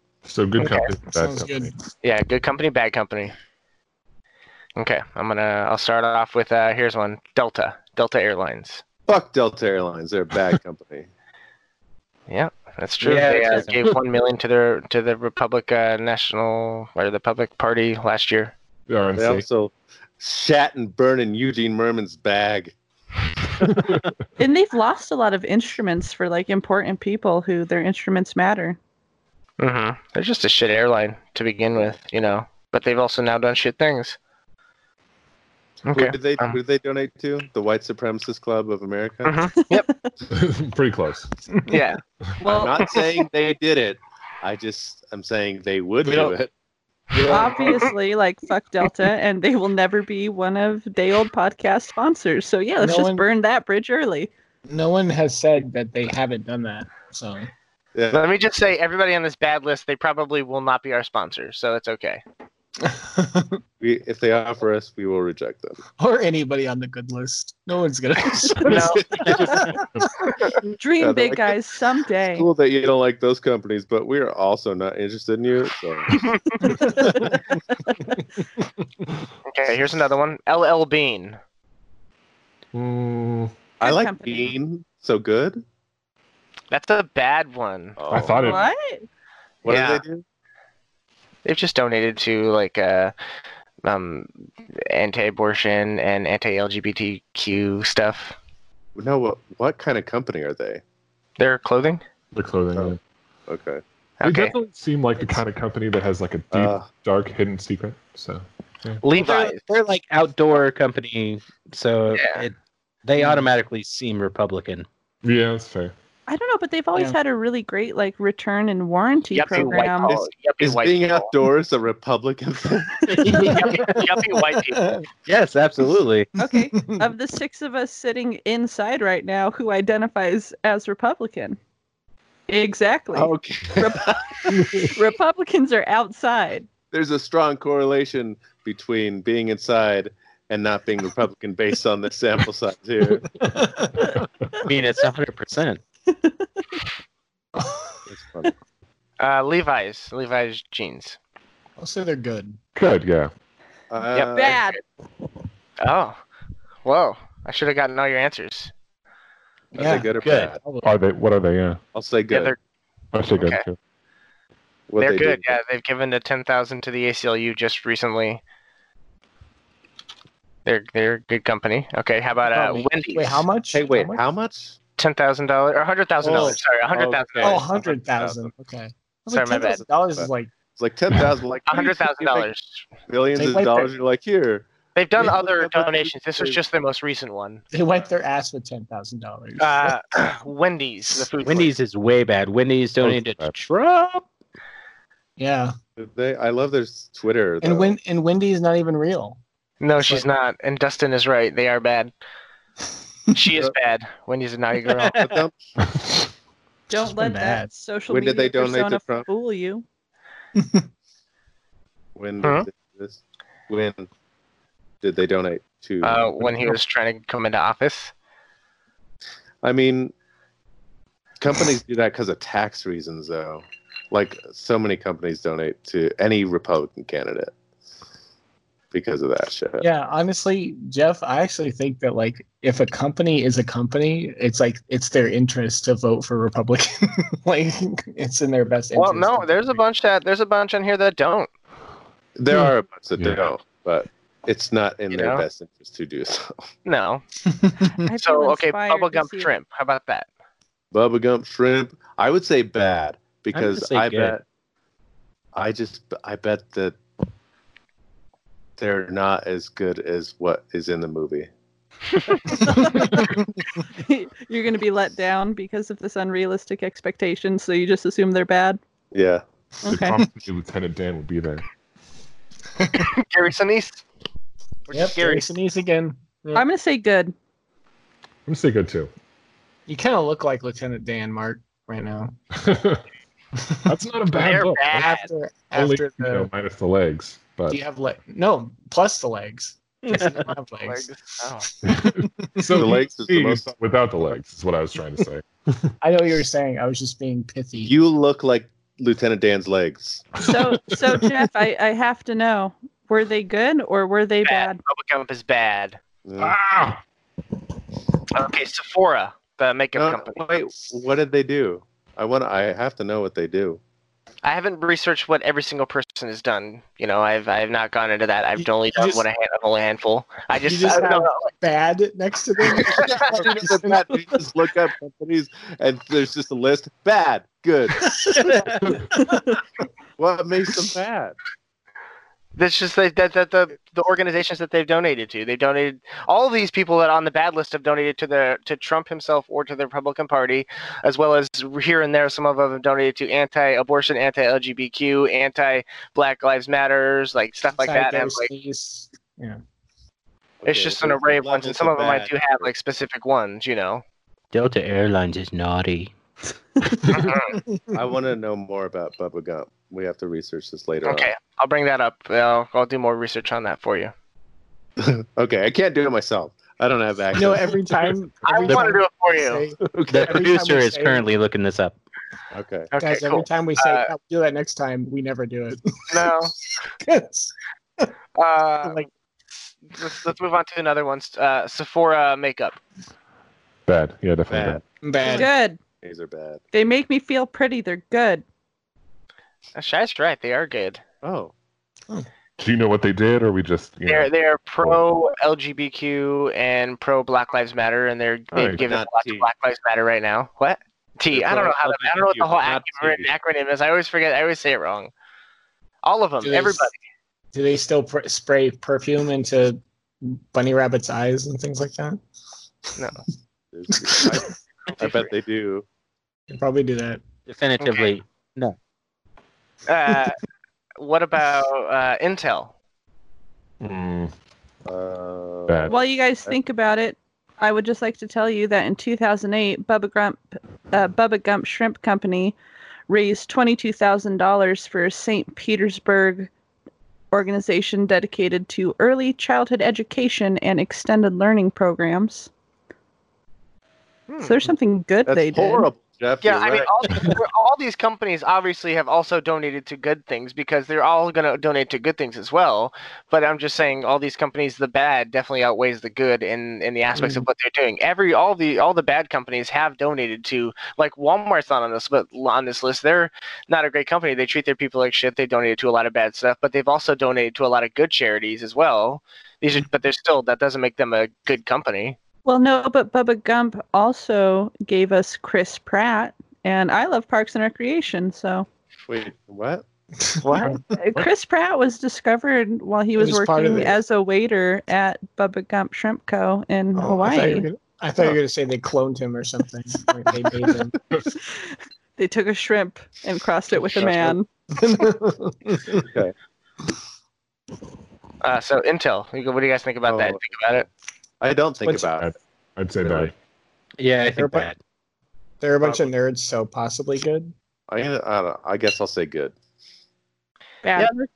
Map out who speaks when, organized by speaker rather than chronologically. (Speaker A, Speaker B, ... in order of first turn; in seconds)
Speaker A: 0.2-1.7, 18.9-19.4, 23.6-24.0, 40.3-41.3, 82.7-83.5, 88.1-88.7, 102.3-103.0, 104.2-109.0, 115.2-115.9, 134.5-134.9, 152.7-153.3, 160.8-161.8, 163.1-163.8, 193.0-193.5, 243.2-243.5, 269.9-271.6, 278.5-279.1, 282.5-283.0, 283.9-285.1, 285.7-287.8, 291.8-295.9, 300.4-301.2, 306.4-307.0, 383.9-384.8, 392.6-395.0, 398.5-398.8, 423.8-424.3, 425.7-425.9, 501.9-503.3
Speaker B: 0.6-1.8, 47.2-47.9, 52.8-53.2, 54.7-57.5, 62.8-63.6, 66.0-70.5, 113.2-113.5, 124.6-125.1, 126.4-127.0, 143.3-144.1, 147.6-148.0, 151.8-152.6, 159.8-160.9, 172.5-174.2, 177.4-180.5, 183.3-183.9, 187.7-189.9, 195.4-195.7, 197.6-199.4, 200.0-200.2, 207.0-207.7, 210.6-210.8, 229.8-239.8, 247.5-247.9, 262.4-263.4, 274.9-276.6, 279.9-282.3, 283.6-283.9, 284.5-286.5, 287.7-291.1, 292.2-292.6, 296.0-297.9, 318.6-319.2, 320.6-324.2, 328.0-329.6, 347.8-349.6, 356.8-357.9, 367.3-371.2, 373.0-376.3, 377.0-378.1, 385.0-385.5, 406.4-406.9, 407.5-412.2, 413.9-414.4, 416.5-417.2, 457.1-457.4, 480.2-480.8, 483.1-484.0, 486.9-491.0, 494.7-496.1, 504.3-504.7, 505.6-507.5
Speaker C: 2.0-3.3, 4.8-8.8, 12.3-18.5, 29.6-34.2, 35.9-36.6, 39.2-39.9, 41.7-43.0, 46.0-46.3, 58.1-62.2, 68.6-69.3, 76.1-76.7, 79.5-81.4, 86.7-88.0, 89.7-90.0, 91.4-93.1, 93.8-94.3, 94.9-98.3, 101.4-102.0, 104.2-104.5, 109.0-109.6, 112.1-112.4, 119.3-121.3, 123.6-124.9, 149.2-151.2, 154.1-154.8, 155.8-156.2, 156.8-158.7, 162.3-162.6, 163.4-163.6, 165.0-168.4, 170.7-173.4, 175.0-177.7, 179.3-179.8, 181.7-182.8, 184.9-187.6, 189.6-191.7, 199.8-202.1, 203.3-205.2, 216.0-218.1, 238.9-241.5, 245.1-245.4, 246.8-247.2, 248.2-250.3, 272.9-274.0, 274.9-275.5, 284.3-285.3, 290.4-291.7, 304.4-306.0, 308.3-310.6, 314.4-321.5, 322.7-323.3, 332.6-348.5, 350.6-354.0, 357.1-357.6, 361.0-364.1, 368.4-369.6, 372.9-374.1, 376.1-376.5, 378.4-379.1, 379.9-382.8, 389.7-391.0, 394.1-405.1, 406.0-406.9, 415.0-415.3, 417.8-418.1, 419.9-420.4, 421.0-422.7, 444.3-444.5, 446.4-472.2, 480.4-480.8, 498.4-500.9
Speaker D: 9.1-11.1, 19.1-22.7, 35.9-39.5, 42.4-46.5, 47.2-47.8, 57.9-58.3, 63.8-65.8, 68.8-69.3, 71.0-71.6, 72.3-76.2, 76.8-77.3, 83.8-85.6, 88.0-88.6, 89.6-90.2, 99.0-100.8, 103.5-103.8, 106.5-106.9, 119.5-123.2, 133.1-134.2, 136.9-143.2, 148.1-148.5, 153.9-154.6, 159.7-160.6, 161.9-162.5, 164.9-165.5, 173.7-174.8, 176.2-178.5, 180.1-182.5, 183.1-186.6, 196.0-197.9, 205.1-205.6, 208.1-209.3, 212.1-214.1, 215.0-216.8, 219.6-220.1, 221.4-227.5, 228.9-229.8, 242.3-246.5, 250.9-254.4, 255.5-257.0, 258.8-261.5, 269.1-269.4, 292.7-293.7, 297.8-300.3, 306.2-306.6, 309.9-313.8, 322.8-328.6, 330.2-331.4, 350.6-352.7, 357.9-361.3, 365.0-368.1, 372.5-372.9, 384.5-384.8, 386.0-386.6, 391.2-391.5, 398.8-399.5, 401.3-403.3, 413.7-415.8, 424.9-426.6, 445.3-447.4, 479.1-479.8, 493.9-494.4, 495.9-496.3, 500.1-500.4, 501.4-502.3, 503.0-503.3, 505.8-506.1, 507.9-509.5
Speaker E: 13.0-13.9, 109.1-114.8, 123.2-124.0, 125.3-126.3, 144.7-145.8, 160.2-160.5, 191.4-194.2, 253.5-254.3, 354.5-356.1, 370.1-371.9, 417.5-418.8, 504.0-504.8
Speaker F: 24.4-28.8, 39.5-40.1, 47.3-54.3, 70.8-72.5, 76.7-77.3, 83.8-84.5, 88.4-89.0, 116.3-120.2, 126.4-131.6, 132.5-136.7, 146.1-146.4, 154.3-154.8, 206.9-209.8, 247.9-249.5, 262.9-263.1, 263.9-268.8, 269.8-270.2, 276.5-277.3, 300.4-304.8, 385.2-385.8, 386.7-388.4, 425.9-432.6, 433.1-436.5, 437.3-442.5, 444.4-445.9, 472.4-478.6, 480.9-487.7, 491.5-494.5, 510.8-511.3